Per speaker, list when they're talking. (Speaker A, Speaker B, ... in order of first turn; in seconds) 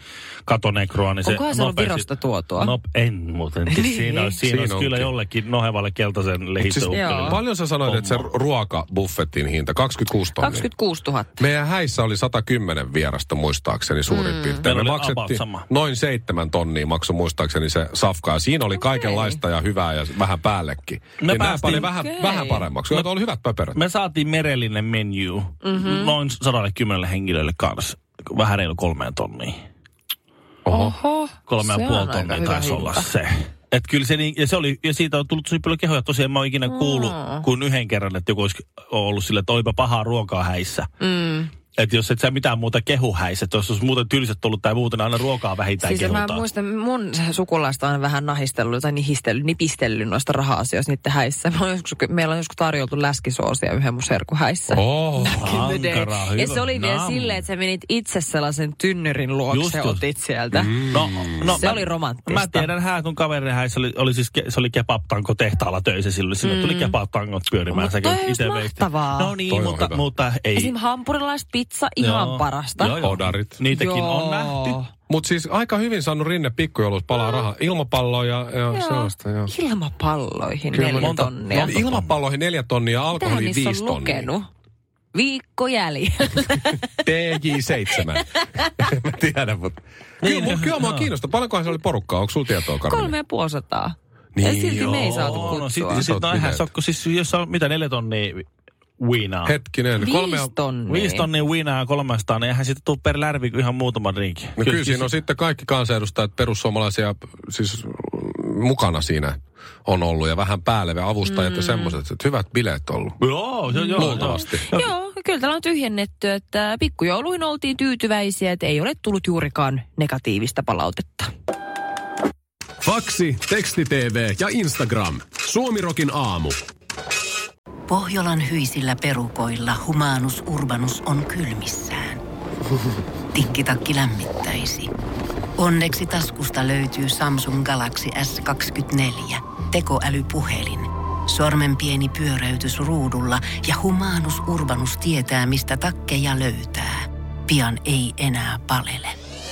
Speaker A: 0.5-2.0, 2.6-8.2, 14.6-15.7, 21.2-21.9, 23.7-29.6, 31.5-40.9, 41.8-46.4, 55.4-57.4, 59.5-60.0, 60.9-70.7, 72.0-74.8, 80.7-82.1, 90.2-91.1, 94.7-98.5, 99.0-99.5, 100.9-105.1, 113.2-114.9
Speaker B: 1.2-2.7, 3.7-4.4, 6.9-7.4, 10.4-11.4, 14.1-14.6, 18.8-19.4, 21.8-22.6, 25.6-26.1, 30.7-33.1, 36.7-37.4, 41.0-41.5, 45.8-60.8, 61.5-62.7, 66.4-66.9, 67.7-69.3, 70.5-73.0, 73.7-74.9, 77.1-77.5, 78.7-81.8, 83.2-84.5, 85.1-86.9, 88.6-88.9, 92.8-96.1, 100.0-101.3, 111.4-111.9, 113.7-121.3
Speaker C: 4.4-5.1, 6.6-10.7, 11.4-23.8, 30.6-30.9, 54.7-55.5, 60.5-61.7, 69.5-70.0, 73.0-73.6, 75.1-79.5, 81.6-84.3, 87.0-93.1, 94.3-96.7, 99.5-100.5, 104.6-113.2, 114.0-114.7
Speaker D: 122.8-126.6
Speaker E: 127.9-132.2, 133.3-134.9, 135.6-149.2